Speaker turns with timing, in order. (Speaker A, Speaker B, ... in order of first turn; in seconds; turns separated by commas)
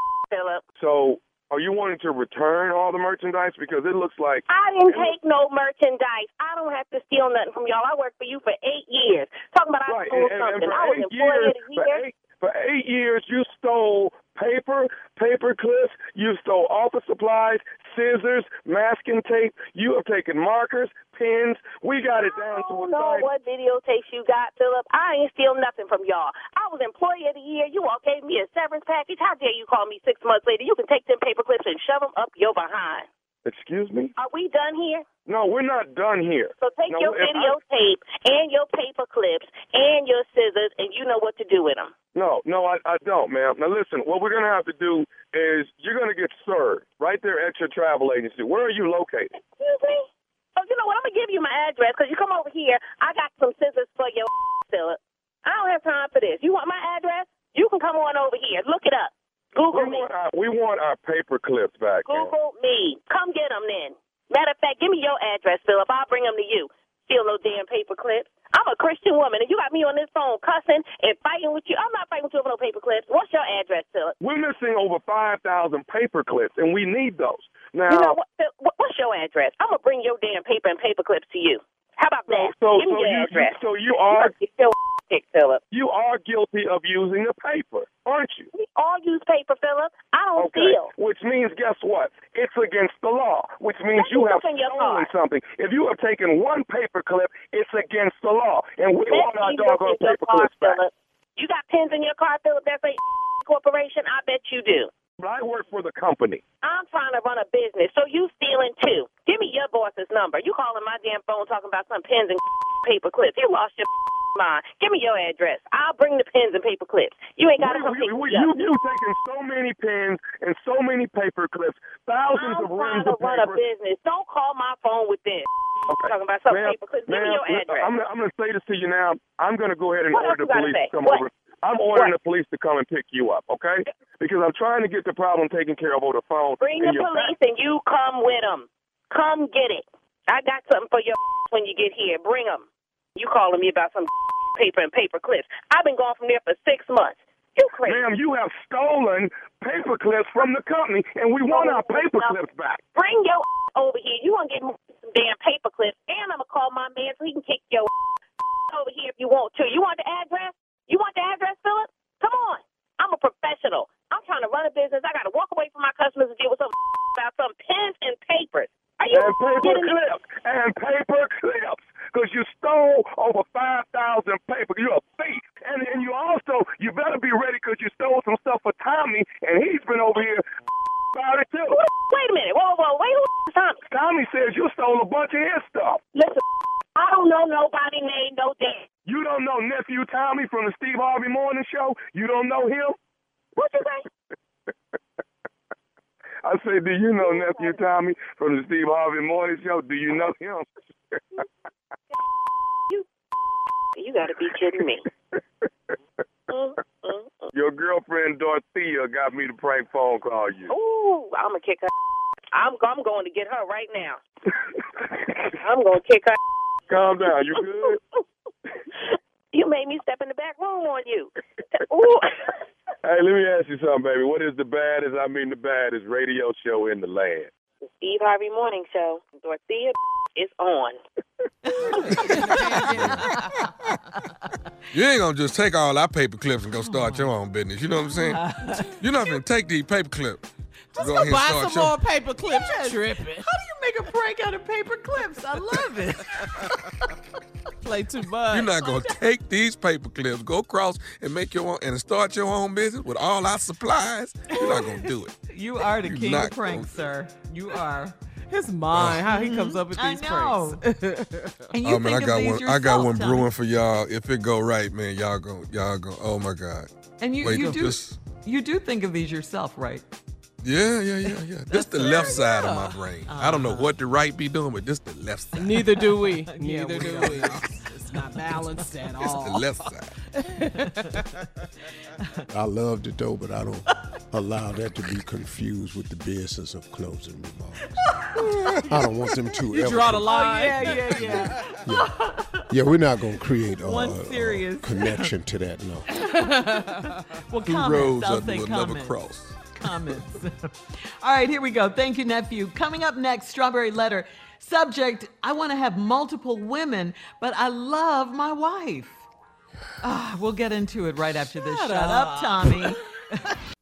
Speaker A: 0.3-0.6, Speaker B: 0.8-5.1, Speaker A: 4.5-12.0, Speaker B: 9.8-23.3, Speaker A: 22.2-33.1, Speaker B: 33.4-34.1, Speaker A: 34.2-35.0, Speaker B: 35.2-37.6, Speaker A: 36.6-41.9, Speaker B: 42.1-49.3, Speaker A: 49.5-60.1, Speaker B: 59.7-62.3, Speaker A: 62.0-74.1, Speaker B: 74.2-78.2, Speaker A: 77.9-83.6, Speaker B: 82.3-84.3, Speaker A: 84.1-85.6, Speaker B: 85.7-88.5, Speaker A: 88.5-90.9, Speaker B: 90.3-100.8, Speaker A: 94.0-95.1, Speaker A: 99.1-104.9, Speaker B: 105.2-106.4, Speaker A: 106.6-118.5, Speaker B: 117.6-123.6, Speaker A: 122.3-125.5, Speaker B: 125.9-137.3, Speaker A: 126.0-127.9, Speaker A: 130.1-131.2, Speaker A: 136.6-148.0, Speaker B: 147.8-152.8, Speaker A: 151.5-152.4, Speaker A: 152.9-157.9, Speaker A: 158.7-169.9, Speaker B: 169.1-180.4, Speaker B: 181.1-181.8, Speaker A: 181.7-183.8, Speaker B: 183.9-186.0, Speaker A: 186.1-186.4, Speaker A: 186.9-188.8, Speaker B: 189.0-192.9, Speaker A: 193.6-194.1, Speaker B: 196.4-201.4, Speaker A: 197.2-197.8, Speaker A: 203.9-205.0, Speaker B: 204.8-205.7, Speaker A: 206.5-207.5, Speaker B: 207.5-210.7, Speaker A: 210.7-211.9, Speaker A: 212.5-214.2, Speaker A: 215.6-216.4, Speaker B: 216.9-218.0, Speaker A: 218.9-222.6, Speaker B: 223.0-227.5, Speaker A: 227.8-231.0, Speaker C: 231.7-234.5, Speaker D: 231.9-233.2, Speaker E: 232.9-233.6, Speaker E: 234.9-242.0, Speaker C: 236.7-237.3, Speaker C: 238.1-239.4, Speaker D: 240.9-243.5, Speaker C: 242.4-247.2, Speaker D: 247.8-248.8, Speaker E: 248.5-255.3, Speaker C: 248.8-249.1, Speaker C: 254.5-254.9, Speaker C: 255.5-258.1, Speaker E: 256.0-256.9, Speaker D: 258.5-261.7, Speaker E: 258.9-259.2, Speaker C: 259.3-260.8, Speaker C: 261.7-263.5, Speaker E: 261.8-268.1, Speaker C: 267.2-270.0, Speaker D: 267.5-267.8, Speaker E: 270.6-275.7, Speaker C: 271.2-272.6, Speaker D: 272.0-273.0, Speaker C: 273.2-273.9, Speaker D: 275.5-281.5, Speaker C: 275.6-279.0, Speaker E: 276.9-277.7, Speaker E: 279.2-280.1, Speaker C: 280.8-281.4, Speaker C: 282.2-282.4, Speaker F: 282.5-288.1, Speaker C: 288.1-288.4, Speaker E: 288.4-288.9, Speaker F: 288.9-290.3, Speaker D: 289.7-291.6, Speaker C: 290.2-292.7, Speaker F: 290.8-292.1, Speaker F: 292.7-296.1, Speaker C: 293.8-295.3, Speaker D: 296.1-297.2, Speaker C: 296.5-299.2, Speaker E: 297.6-299.6, Speaker C: 299.7-309.2, Speaker C: 310.0-313.5, Speaker D: 311.6-312.9